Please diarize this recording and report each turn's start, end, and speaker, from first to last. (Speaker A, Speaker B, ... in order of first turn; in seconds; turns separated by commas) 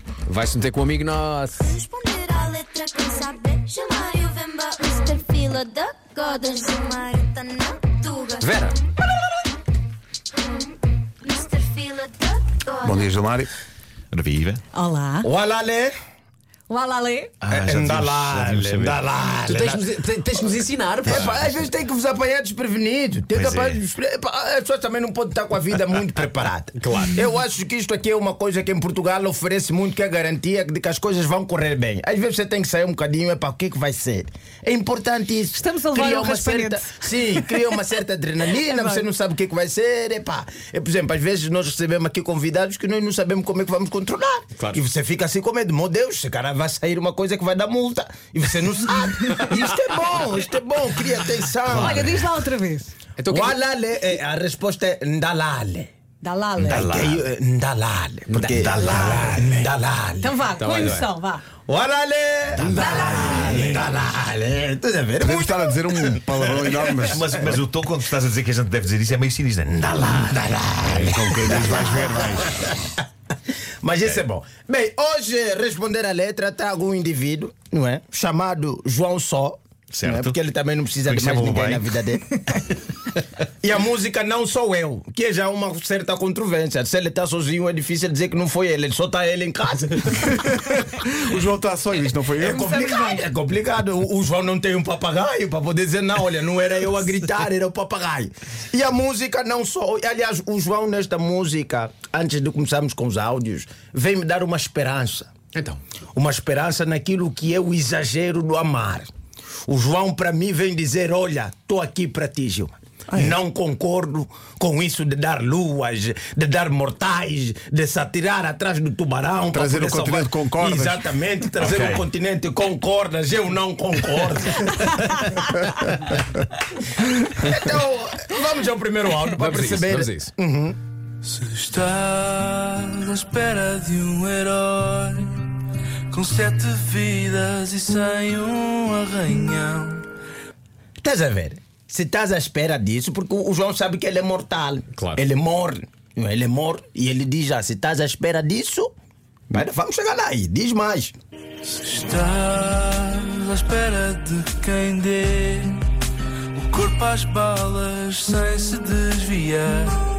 Speaker A: 0.3-1.8, Speaker B: 1.6-8.7, Speaker A: 8.4-8.8, Speaker B: 11.2-13.1, Speaker C: 12.8-13.5, Speaker D: 14.1-14.6, Speaker E: 14.8-15.2, Speaker F: 14.8-15.2, Speaker G: 15.2-15.9, Speaker E: 16.7-17.1, Speaker F: 16.7-17.3, Speaker D: 17.4-19.7, Speaker G: 17.5-19.9, Speaker A: 19.5-21.6, Speaker G: 21.0-52.3, Speaker D: 23.3-23.8, Speaker A: 26.8-27.2, Speaker F: 35.6-36.8, Speaker E: 36.0-36.7, Speaker E: 38.7-39.0, Speaker A: 44.6-44.8, Speaker A: 51.7-51.9, Speaker E: 51.7-52.9, Speaker F: 51.8-52.9, Speaker A: 53.2-53.6, Speaker G: 53.3-55.9, Speaker F: 56.2-56.8, Speaker D: 56.6-57.2, Speaker G: 56.7-60.4, Speaker A: 58.3-58.8, Speaker D: 58.6-59.5, Speaker F: 60.2-61.4, Speaker E: 60.4-61.4, Speaker A: 60.5-61.1, Speaker G: 61.6-67.2, Speaker D: 62.5-63.8, Speaker A: 62.7-63.6, Speaker C: 65.2-67.2, Speaker D: 67.1-69.9, Speaker G: 69.8-72.9, Speaker C: 70.9-72.7, Speaker D: 71.5-71.7, Speaker G: 73.8-82.3, Speaker D: 79.9-80.4, Speaker D: 81.0-82.0, Speaker G: 83.6-90.3, Speaker C: 90.3-93.0, Speaker G: 92.4-105.3, Speaker A: 105.5-105.8, Speaker G: 106.1-109.1, Speaker G: 109.7-126.1, Speaker C: 113.1-113.4, Speaker C: 119.5-121.0, Speaker D: 121.6-122.0, Speaker G: 127.2-130.8, Speaker A: 129.3-130.3, Speaker E: 131.2-135.6, Speaker E: 136.1-140.1, Speaker G: 141.0-148.9, Speaker A: 144.9-145.2, Speaker G: 149.5-151.2, Speaker E: 151.6-155.9, Speaker E: 156.5-160.0